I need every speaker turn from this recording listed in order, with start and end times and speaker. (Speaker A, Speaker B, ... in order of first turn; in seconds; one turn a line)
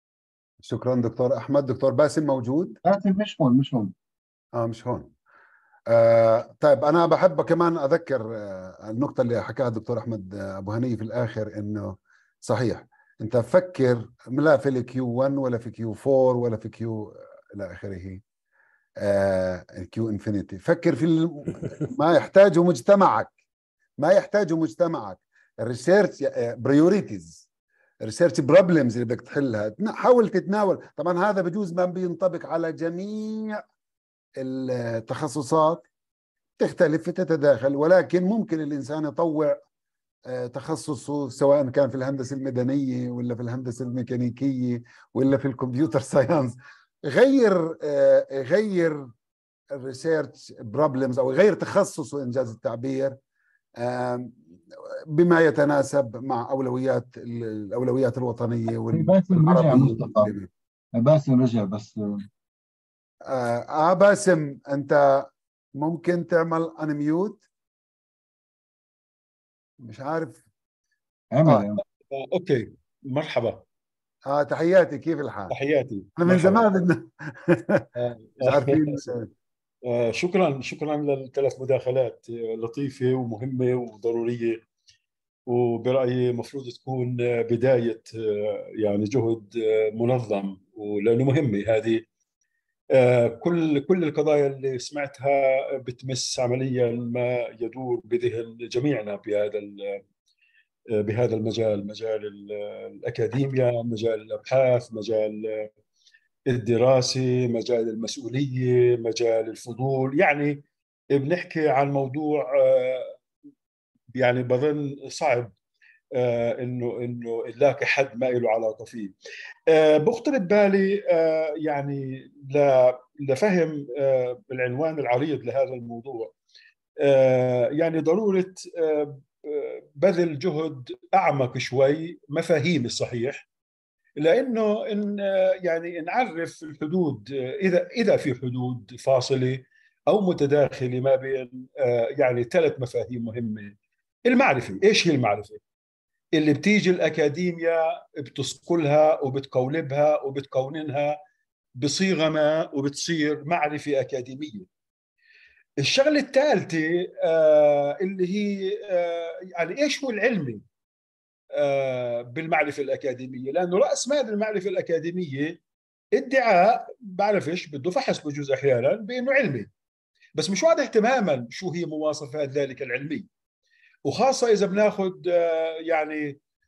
Speaker A: 0.6-2.8
Speaker B: 2.8-3.9
Speaker A: 4.5-5.1
Speaker A: 5.9-18.2
Speaker A: 19.0-23.3
Speaker A: 24.0-27.4
Speaker A: 28.0-33.6
Speaker A: 34.4-35.8
Speaker A: 36.6-39.6
Speaker A: 40.3-49.1
Speaker A: 49.7-53.1
Speaker A: 53.8-54.4
Speaker A: 55.1-60.5
Speaker B: 58.9-60.3
Speaker B: 60.9-62.2
Speaker A: 63.3-67.4
Speaker A: 69.8-70.4
Speaker B: 71.3-71.8
Speaker C: 72.1-73.6
Speaker A: 74.2-75.5
Speaker C: 75.5-76.7
Speaker A: 76.2-79.3
Speaker C: 78.4-79.0
Speaker C: 79.9-84.6
Speaker C: 85.5-92.0
Speaker C: 92.9-100.0
Speaker C: 100.9-105.7
Speaker C: 106.5-113.2
Speaker C: 114.1-115.5
Speaker C: 116.1-119.1
Speaker C: 119.7-126.3
Speaker C: 127.0-133.4
Speaker C: 134.2-143.7
Speaker C: 144.3-145.6
Speaker C: 146.3-151.2
Speaker C: 151.8-154.7
Speaker C: 155.8-160.6
Speaker C: 161.5-165.6
Speaker C: 166.2-169.7
Speaker C: 170.3-173.2
Speaker C: 174.1-176.4